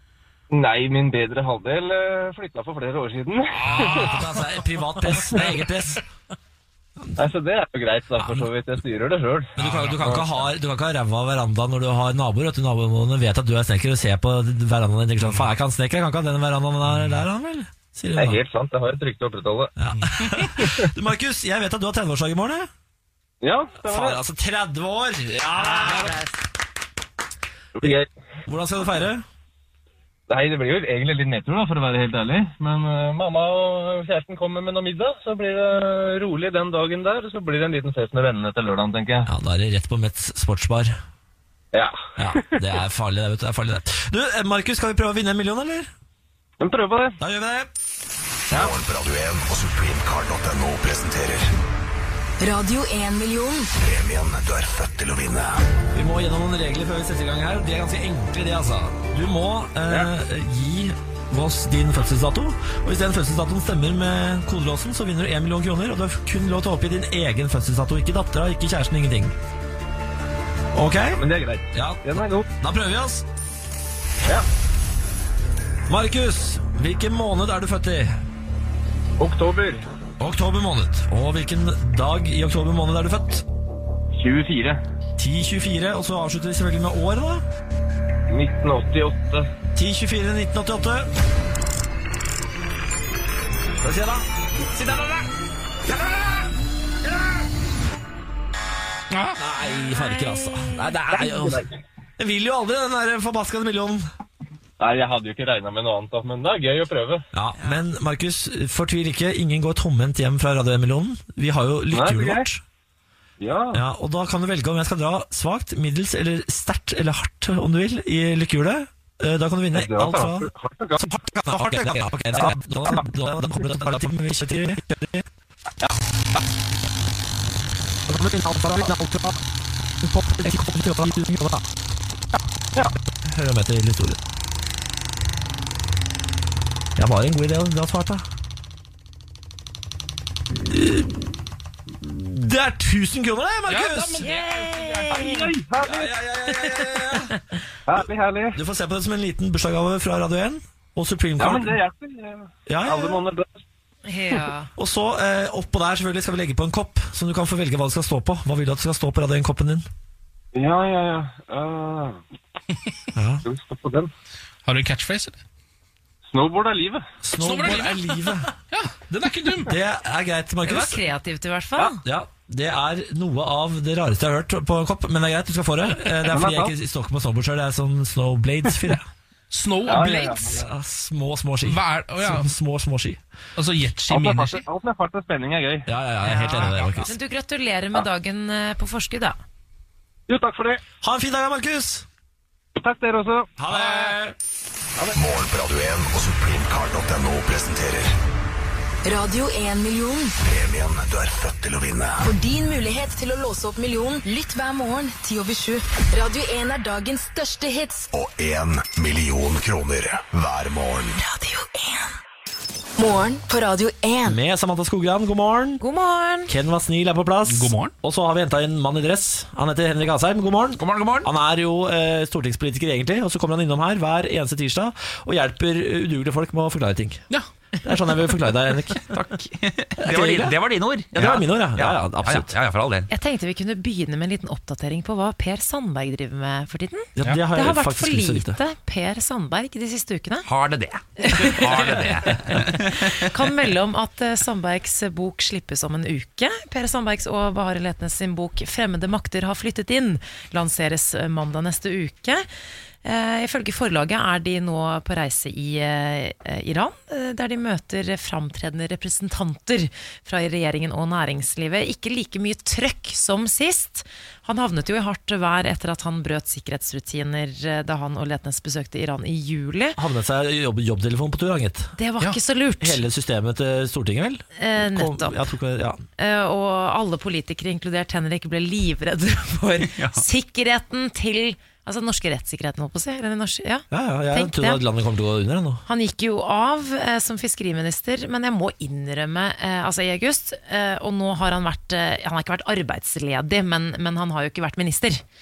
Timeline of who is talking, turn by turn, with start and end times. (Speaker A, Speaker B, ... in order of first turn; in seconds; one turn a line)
Speaker A: 0.5-4.1
Speaker B: 3.6-6.0
Speaker C: 3.7-4.2
Speaker A: 7.2-10.3
Speaker B: 8.2-8.4
Speaker B: 9.6-18.4
Speaker C: 9.6-9.9
Speaker A: 18.1-19.7
Speaker B: 19.8-22.7
Speaker C: 20.0-20.4
Speaker A: 23.4-24.2
Speaker B: 23.8-26.2
Speaker D: 25.5-26.4
Speaker A: 27.8-28.1
Speaker B: 27.8-29.2
Speaker A: 30.3-39.3
Speaker B: 39.2-40.9
Speaker A: 41.7-42.6
Speaker B: 42.2-45.9
Speaker A: 46.6-47.2
Speaker B: 47.2-47.7
Speaker E: 48.5-51.5
Speaker F: 52.4-53.7
Speaker E: 53.8-55.6
Speaker B: 55.9-69.3
Speaker B: 70.7-71.2
Speaker A: 71.1-72.5
Speaker B: 71.7-73.2
Speaker B: 75.9-78.2
Speaker A: 79.2-79.8
Speaker B: 80.2-83.4
Speaker A: 84.1-84.8
Speaker B: 85.2-87.4
Speaker A: 88.3-89.5
Speaker B: 89.7-91.1
Speaker B: 93.8-95.2
Speaker B: 96.0-96.4
Speaker B: 99.4-101.6
Speaker D: 99.8-100.8
Speaker A: 101.1-101.7
Speaker B: 102.2-104.1
Speaker A: 104.8-107.2
Speaker B: 107.3-112.6
Speaker A: 111.9-112.5
Speaker A: 113.4-113.8
Speaker B: 113.7-125.2
Speaker A: 119.7-121.2
Speaker B: 128.1-129.4
Speaker B: 130.0-131.6
Speaker B: 133.2-134.2
Speaker B: 137.0-138.2
Speaker B: 140.5-141.3
Speaker B: 142.0-144.3
Speaker C: 143.7-145.1
Speaker D: 144.2-145.5
Speaker A: 145.1-146.1
Speaker B: 145.8-147.3
Speaker A: 147.9-148.6
Speaker B: 148.5-151.8
Speaker A: 151.4-153.6
Speaker B: 152.7-153.2
Speaker D: 154.0-154.7
Speaker B: 154.8-159.8
Speaker A: 160.5-162.2
Speaker B: 163.1-163.4
Speaker A: 163.4-164.1
Speaker C: 164.7-165.4
Speaker A: 166.3-167.0
Speaker B: 167.2-168.5
Speaker C: 167.4-169.7
Speaker B: 169.6-171.0
Speaker D: 170.6-172.0
Speaker B: 171.8-179.1
Speaker A: 176.2-176.7
Speaker C: 179.5-180.5
Speaker A: 179.8-180.6
Speaker B: 180.4-183.2
Speaker C: 181.6-182.5
Speaker C: 183.6-184.6
Speaker A: 184.1-185.9
Speaker B: 185.9-187.1
Speaker D: 186.2-189.4
Speaker A: 190.3-190.8
Speaker B: 191.0-192.1
Speaker A: 192.8-193.5
Speaker B: 193.6-194.3
Speaker C: 193.7-194.1
Speaker E: 195.1-198.1
Speaker F: 199.0-200.3
Speaker E: 200.4-202.3
Speaker F: 202.2-208.1
Speaker E: 208.1-211.2
Speaker F: 211.2-212.1
Speaker F: 213.0-214.4
Speaker B: 214.2-215.8
Speaker D: 215.8-216.5
Speaker B: 216.5-227.2
Speaker C: 217.5-217.9
Speaker G: 220.8-221.3
Speaker B: 227.8-229.0
Speaker G: 229.0-233.1
Speaker B: 230.0-230.6
Speaker B: 231.1-232.5
Speaker D: 233.1-240.5
Speaker B: 237.2-238.6
Speaker G: 240.4-243.3
Speaker D: 241.2-252.5
Speaker D: 253.0-270.0
Speaker B: 270.0-271.9
Speaker D: 272.0-273.0
Speaker B: 272.8-276.0
Speaker D: 274.6-275.5
Speaker D: 276.2-284.8
Speaker G: 279.8-280.2
Speaker B: 283.9-285.8
Speaker D: 285.9-295.2